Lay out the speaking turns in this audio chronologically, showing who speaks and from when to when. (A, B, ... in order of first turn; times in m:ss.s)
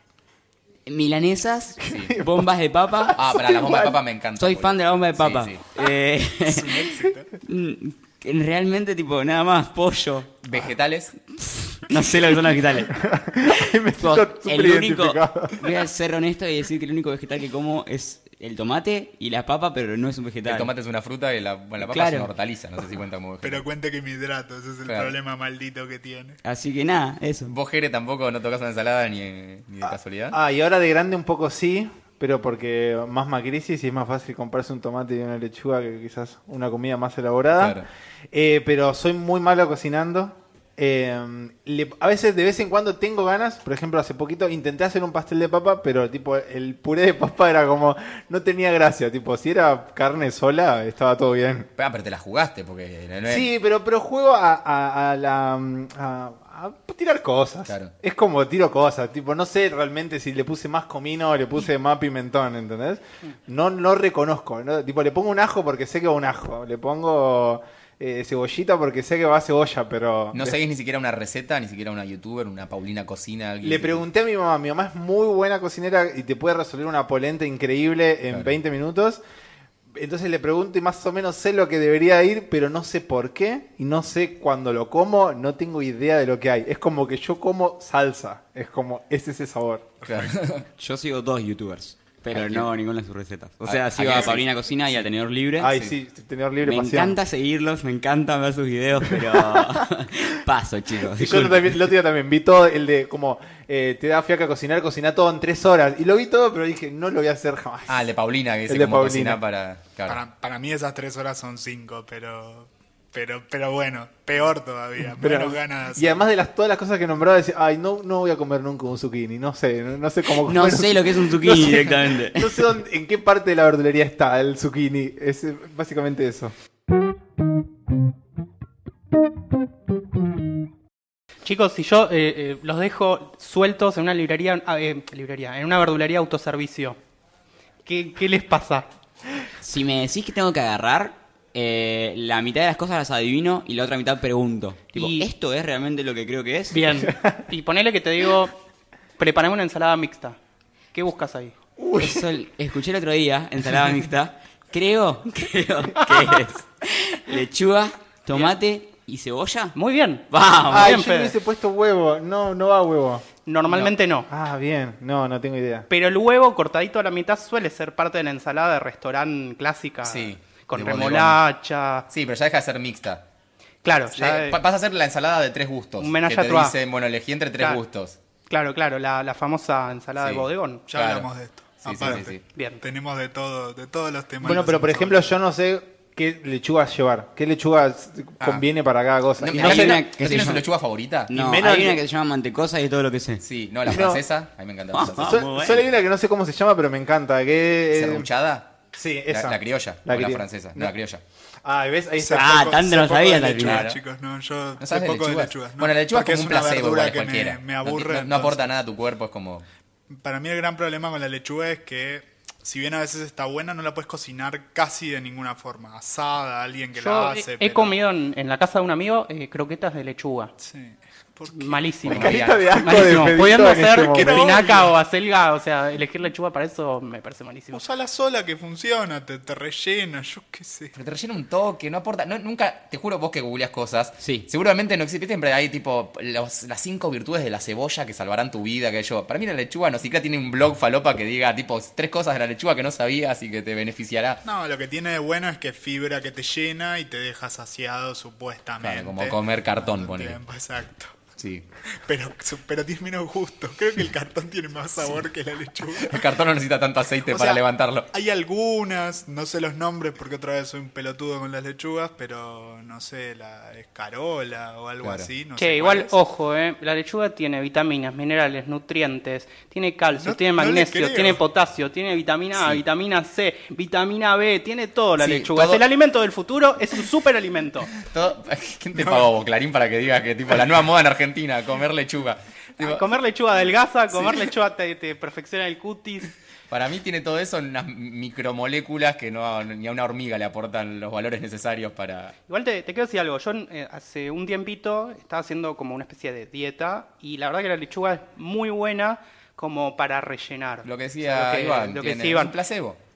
0:00.9-0:03.2 A
0:01.8-0:02.5 B
0:01.9-0:02.1 C
0:03.0-0:04.0 B
0:03.2-0:05.6 C
0:04.4-0:10.4 A
0:06.5-0:07.3 D
0:10.4-0:11.2 C
0:11.3-0:13.0 A
0:12.9-0:15.7 B
0:13.5-0:20.7 A
0:20.5-0:23.7 C
0:21.8-0:22.3 A
0:23.4-0:26.4 D
0:24.9-0:25.2 C
0:26.4-0:27.6 A
0:27.5-0:30.4 C
0:29.9-0:51.7 B
0:37.6-0:37.9 C
0:51.8-0:53.5 C
0:53.2-1:10.6 B
0:57.7-0:57.9 C
1:10.3-1:14.0 C
1:13.6-1:19.2 B
1:19.9-1:29.9 B
1:30.0-1:30.7 C
1:30.8-1:35.7 A
1:32.3-1:32.7 C
1:33.7-1:35.0 C
1:35.6-1:37.2 B
1:35.7-1:35.9 C
1:36.6-1:41.8 A
1:39.1-1:39.8 B
1:41.1-1:48.1 B
1:47.9-1:50.2 C
1:48.7-1:49.4 B
1:50.1-1:56.2 D
1:55.1-2:06.5 B
2:00.4-2:02.6 A
2:11.4-2:17.0 E
2:17.8-2:18.9 E
2:19.6-2:27.0 A
2:25.0-2:25.3 E
2:26.7-2:28.6 E
2:29.2-2:30.4 E
2:30.9-2:31.6 E
2:31.8-2:32.3 B
2:32.0-2:39.8 A
2:39.8-2:41.4 E
2:40.3-2:41.0 A
2:40.7-2:43.3 B
2:43.5-2:44.3 E
2:43.7-2:43.9 C
2:44.3-2:45.9 B
2:45.9-2:52.1 E
2:50.0-2:51.4 C
2:52.1-2:53.2 C
2:53.8-2:54.6 E
2:54.1-2:58.2 C
2:56.0-2:56.8 E
2:58.5-3:00.8 E
3:00.2-3:01.3 C
3:00.9-3:05.3 D
3:01.8-3:02.4 C
3:02.1-3:02.8 E
3:04.4-3:10.1 B
3:09.4-3:11.3 C
3:09.5-3:10.7 A
3:11.3-3:13.4 A
3:11.3-3:12.0 B
3:13.4-3:15.4 C
3:13.8-3:14.2 B
3:14.9-3:15.8 A
3:15.1-3:18.3 B
3:17.9-3:18.7 C
3:18.9-3:20.9 B
3:19.3-3:21.2 C
3:21.6-3:22.7 B
3:22.2-3:28.7 D
3:22.3-3:23.9 A
3:23.6-3:24.0 C
3:24.8-3:29.7 C
3:30.1-3:38.0 D
3:37.0-3:40.5 E
3:40.6-3:42.0 D
3:41.5-3:47.8 E
3:42.1-3:43.2 C
3:42.1-3:44.5 B
3:43.9-3:45.0 D
3:47.7-3:50.9 D
3:51.0-4:04.4 C
3:54.2-3:54.5 A
4:04.4-4:11.1 D
4:08.8-4:10.4 C
4:11.4-4:11.6 C
4:12.0-4:16.3 D
4:16.0-4:18.1 C
4:17.2-4:26.1 D
4:25.0-4:25.3 C
4:25.6-4:37.9 E
4:30.2-4:31.4 D
4:32.5-4:32.8 C
4:35.2-4:35.8 C
4:38.0-4:43.1 C
4:39.0-4:39.2 D
4:42.8-4:46.3 E
4:46.7-4:52.4 C
4:52.5-5:02.6 E
5:00.8-5:03.0 C